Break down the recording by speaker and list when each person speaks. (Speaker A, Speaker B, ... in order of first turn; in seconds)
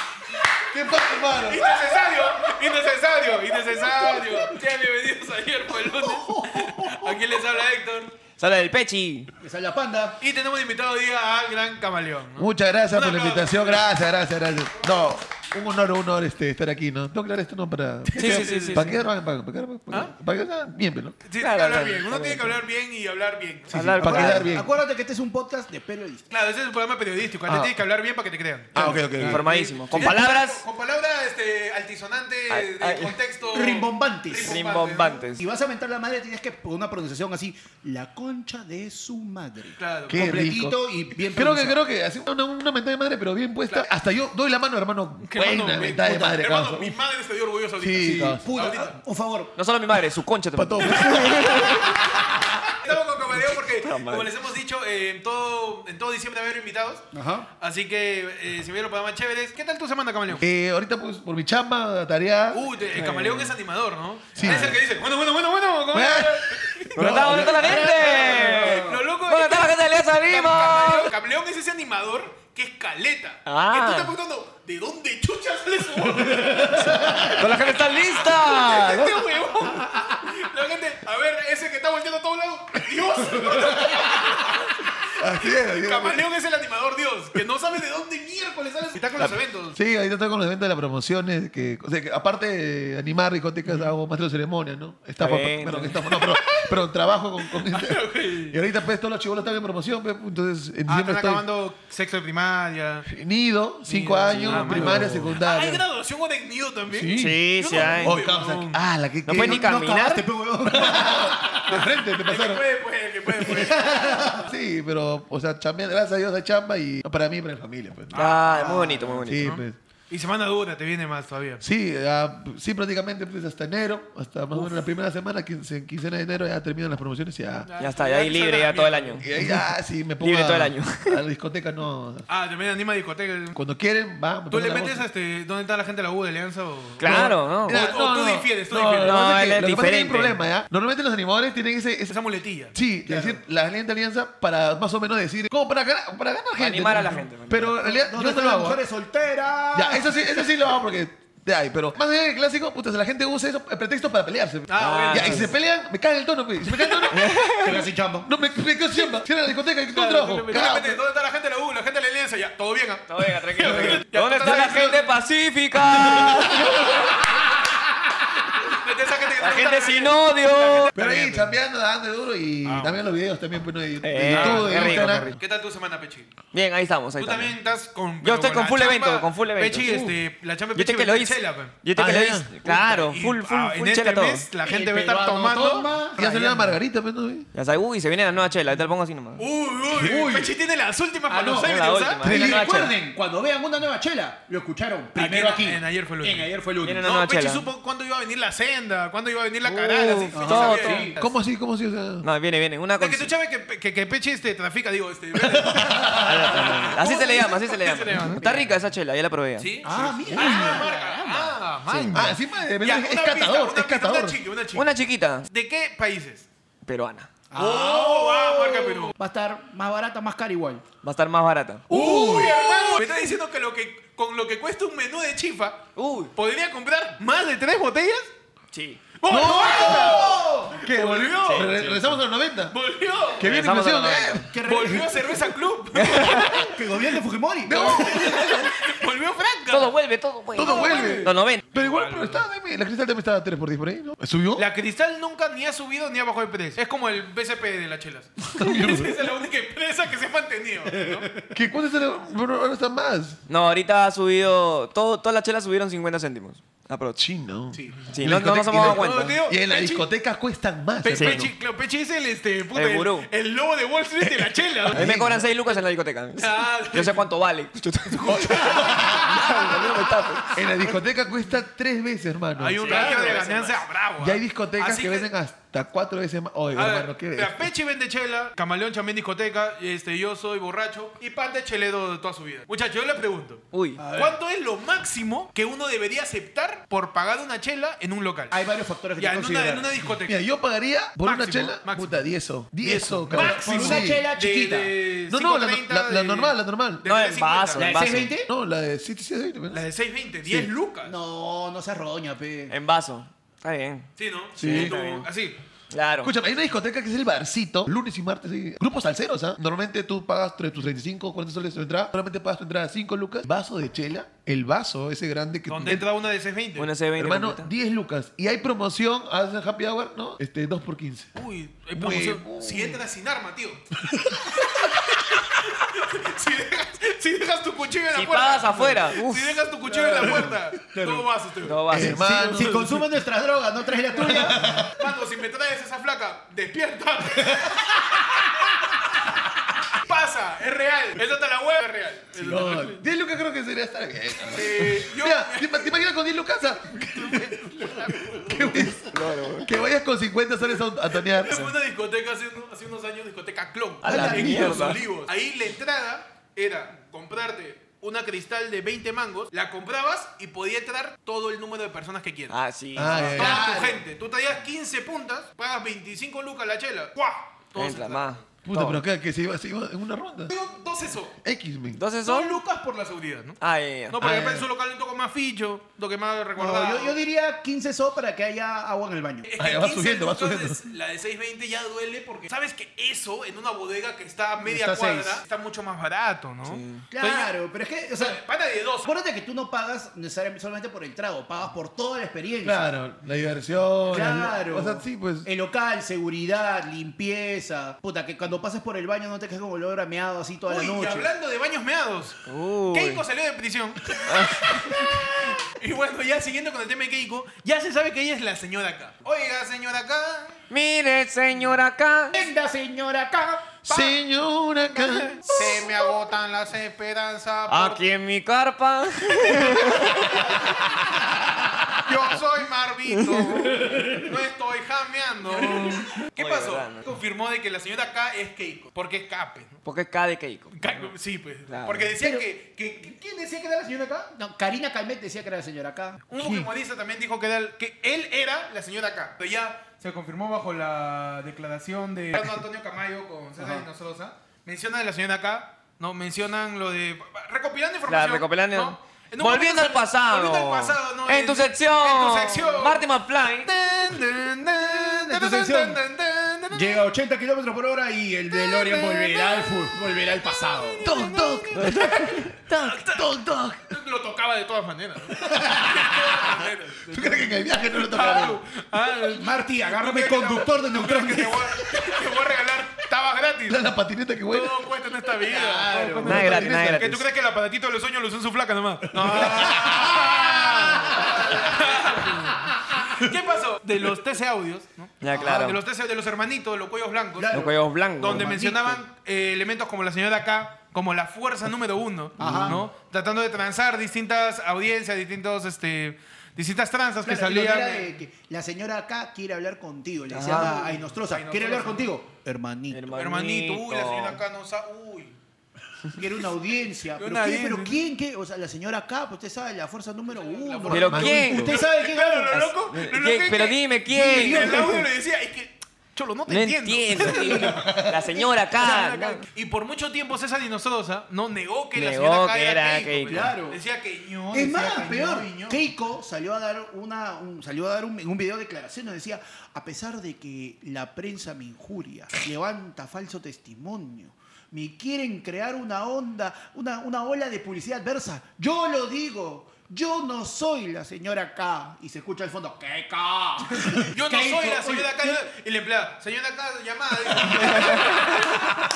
Speaker A: 0.7-1.8, 6.0-7.1, 12.4-21.1, 23.7-24.7, 27.5-27.7, 28.7-30.2, 40.1-40.8, 41.3-47.0, 47.8-48.6, 50.5-52.5, 60.4-62.6, 64.3-64.8, 65.9-68.1, 76.2-77.6, 83.5-84.3, 85.2-86.2, 89.7-101.4, 103.1-105.8, 106.9-109.7, 110.7-112.6, 114.3-118.2, 119.0-119.8, 121.6-127.7, 129.2-132.3, 133.5-135.1, 137.0-142.2, 142.7-148.8, 149.7-157.3, 158.2-161.0, 163.6-164.9, 166.1-166.4, 170.9-175.3, 181.9-182.5, 186.2-187.5, 190.0-190.4, 192.2-192.9, 201.2-202.2, 205.3-206.9, 210.3-210.8, 212.1-214.4, 221.9-223.0, 229.3-232.8, 233.4-234.5, 237.6-238.7, 240.5-244.7, 248.5-249.2, 251.5-253.4, 257.2-261.5, 264.8-265.4, 268.2-269.5, 270.5-273.5, 274.2-277.7, 290.2-294.2, 295.3-297.1, 298.4-299.8, 300.4-300.7, 304.6-304.9, 306.2-316.1, 317.2-321.3, 321.9-323.0, 324.0-324.9, 330.2-330.5, 331.9-333.0, 334.2-335.0, 342.4-351.7, 362.9-364.0, 368.6-370.5, 371.4-372.0, 374.2-374.7, 379.6-380.8, 392.6-395.5, 413.8-415.5, 461.0-463.9, 467.1-468.6, 473.7-474.8, 476.2-477.2, 479.2-479.9, 511.1-511.5, 517.6-518.2
Speaker B: 1.3-8.1, 10.2-13.9, 18.1-18.9, 21.2-23.9, 26.3-35.3, 39.8-40.3, 45.2-49.0, 50.9-51.6, 52.8-57.1, 57.6-60.4, 62.5-89.8, 96.2-96.7, 97.5-98.6, 100.9-103.1, 103.9-108.8, 111.7-114.3, 118.1-121.6, 127.6-129.2, 132.3-133.6, 134.5-139.3, 142.1-142.8, 154.7-155.5, 159.9-165.0, 168.6-171.5, 172.6-173.0, 174.2-176.3, 177.2-181.8, 182.6-185.9, 189.4-192.2, 195.2-196.5, 197.0-201.3, 203.0-208.6, 209.6-214.9, 215.5-216.4, 217.5-219.1, 221.9-228.3, 229.2-231.8, 232.7-233.5, 234.6-236.8, 237.9-239.9, 240.6-242.4, 244.6-251.3, 257.7-260.1, 261.0-265.8, 266.4-267.3, 268.1-270.4, 272.6-275.3, 276.7-288.6, 289.2-290.4, 291.2-292.2, 292.8-297.9, 299.7-301.2, 304.2-305.6, 315.7-316.9, 321.4-323.8, 325.1-331.8, 334.1-338.4, 339.9-343.0, 344.5-345.9, 347.1-348.9, 351.2-368.4, 370.5-371.4, 372.2-377.2, 379.4-387.5, 388.1-389.1, 400.7-410.6, 413.9-414.2, 414.9-418.0, 419.6-420.2, 422.0-429.8, 430.7-434.3, 436.3-453.1, 453.6-457.0, 458.7-459.9, 460.7-463.3, 463.9-473.8, 474.5-487.6, 488.2-498.1, 500.4-502.1, 503.1-505.3, 507.1-508.1, 510.3-525.8, 544.1-548.8
Speaker C: 8.4-9.3, 18.1-19.0, 21.4-22.6, 23.7-24.6, 28.7-30.6, 32.5-33.2, 34.4-35.4, 49.5-52.0, 53.7-54.3, 62.9-63.5, 64.4-64.7, 66.9-71.1, 73.5-74.1, 77.3-79.8, 95.2-96.2, 104.3-105.3, 107.1-108.2, 109.2-110.2, 118.1-119.6, 127.8-129.5, 130.2-131.2, 137.0-137.8, 139.0-140.4, 146.6-147.8, 154.8-155.5, 157.1-157.8, 163.1-167.4, 169.4-170.9, 174.0-175.4, 176.5-177.5, 178.2-180.1, 180.7-184.4, 187.5-189.4, 191.5-192.9, 196.8-197.7, 199.6-201.2, 202.2-203.3, 206.1-209.7, 211.9-212.3, 214.7-215.5, 216.8-217.3, 221.0-221.8, 225.9-226.3, 228.7-229.0, 231.4-232.1, 233.4-234.5, 235.9-236.7, 238.2-238.7, 239.7-241.6, 253.5-257.2, 258.1-259.4, 261.1-261.4, 262.7-263.3, 264.9-270.6, 272.8-273.8, 283.7-284.0, 297.0-298.3, 302.7-304.1, 304.6-305.3, 305.9-306.3, 316.8-317.7, 328.1-329.6, 331.6-332.7, 349.0-349.7, 354.0-355.0, 362.5-363.6, 367.8-369.0, 371.9-372.6, 373.6-374.2, 386.6-387.0, 402.5-403.2, 404.2-405.1, 410.7-412.3, 417.7-420.9, 423.1-424.1, 425.5-427.0, 429.8-431.1, 431.7-432.4, 448.1-453.7, 461.7-462.8, 476.2-477.2, 485.2-485.8, 487.5-488.6, 492.4-492.9, 500.3-500.7, 502.9-504.4, 510.9-511.8, 512.5-515.0, 516.5-519.4, 521.9-523.5, 547.6-548.2
Speaker D: 9.4-10.2, 23.7-26.3, 28.8-29.4, 33.5-34.6, 35.4-41.8, 48.0-49.5, 57.1-57.5, 67.6-69.0, 109.3-111.7, 113.4-114.5, 118.5-119.2, 143.0-143.4, 147.8-150.5, 157.6-158.3, 184.6-186.7, 191.3-197.1, 200.3-201.2, 208.3-208.7, 209.8-211.6, 217.5-220.8, 229.3-230.8, 234.5-235.4, 236.5-238.2, 272.9-273.4, 284.0-284.4, 288.5-290.0, 293.3-294.9, 297.7-298.5, 301.0-302.7, 329.9-331.3, 332.1-334.8, 354.0-355.0, 363.4-364.0, 376.6-379.5, 384.6-385.4, 387.1-388.4, 389.0-392.9, 394.1-401.3, 412.3-413.7, 434.3-436.7, 454.8-456.0, 456.7-461.0, 465.5-466.0, 469.3-471.7, 475.4-476.4, 479.4-483.1, 485.3-485.6, 487.4-489.0, 492.4-492.8, 497.2-503.1, 506.1-512.6, 514.1-515.1, 518.3-519.3, 523.3-523.8, 524.5-545.4, 547.5-548.5